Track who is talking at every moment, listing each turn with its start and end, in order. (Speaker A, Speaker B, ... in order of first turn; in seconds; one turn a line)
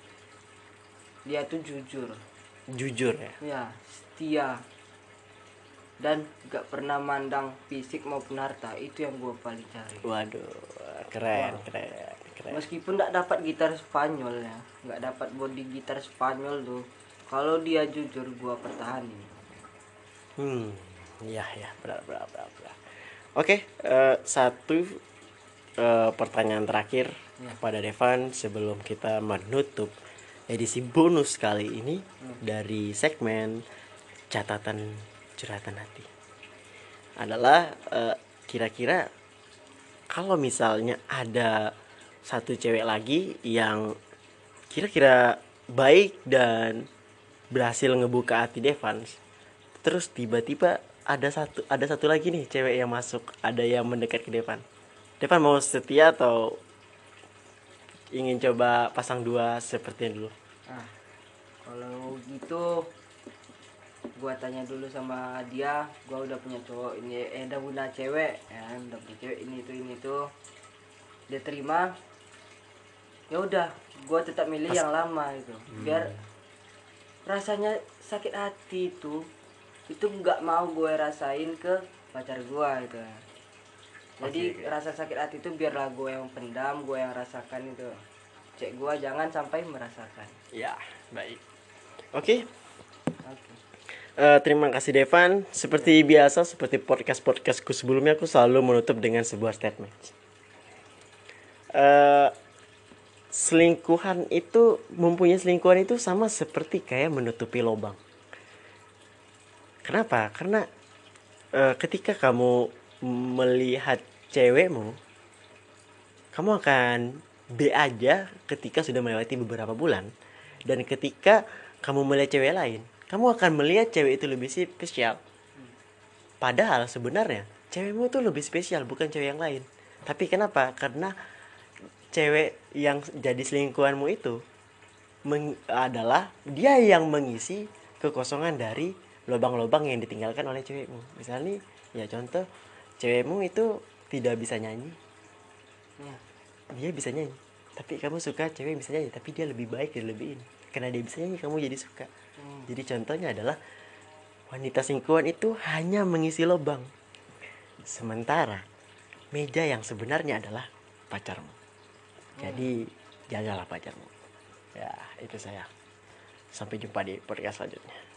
Speaker A: 1.3-2.2
Speaker B: 2.7-3.4
Speaker A: 3.4-4.6
Speaker A: 6.0-10.1
Speaker B: 10.0-12.6
Speaker A: 11.3-11.6
Speaker A: 12.5-19.3
Speaker B: 20.4-22.8
Speaker B: 23.4-25.0
Speaker B: 25.8-29.9
Speaker B: 30.5-33.6
Speaker B: 34.3-36.1
Speaker B: 37.2-39.0
Speaker B: 40.1-41.6
Speaker B: 42.3-43.9
Speaker B: 44.7-46.9
Speaker B: 47.5-49.2
Speaker B: 49.8-54.6
Speaker B: 55.2-56.6
Speaker B: 58.1-60.3
Speaker A: 61.6-62.9
Speaker A: 64.2-70.2
Speaker A: 71.3-71.9
Speaker A: 73.3-76.2
Speaker B: 75.7-76.1
Speaker A: 77.3-79.2
Speaker A: 79.9-83.2
Speaker A: 84.2-87.9
Speaker B: 84.2-84.7
Speaker A: 88.6-90.4
Speaker B: 90.5-91.4
Speaker B: 92.1-92.5
Speaker A: 93.2-93.6
Speaker B: 94.2-100.1
Speaker B: 101.8-102.3
Speaker B: 103.3-108.0
Speaker B: 109.9-110.7
Speaker B: 111.6-115.0
Speaker B: 116.3-120.1
Speaker B: 120.7-125.2
Speaker B: 126.4-131.1
Speaker B: 132.1-134.4
Speaker B: 135.3-142.5
Speaker B: 143.0-145.0
Speaker B: 146.8-152.1
Speaker A: 152.4-152.7
Speaker B: 152.7-153.6
Speaker B: 154.5-156.9
Speaker B: 157.8-158.6
Speaker B: 159.3-161.6
Speaker A: 162.4-162.7
Speaker B: 162.4-164.1
Speaker B: 164.8-165.7
Speaker B: 166.6-168.0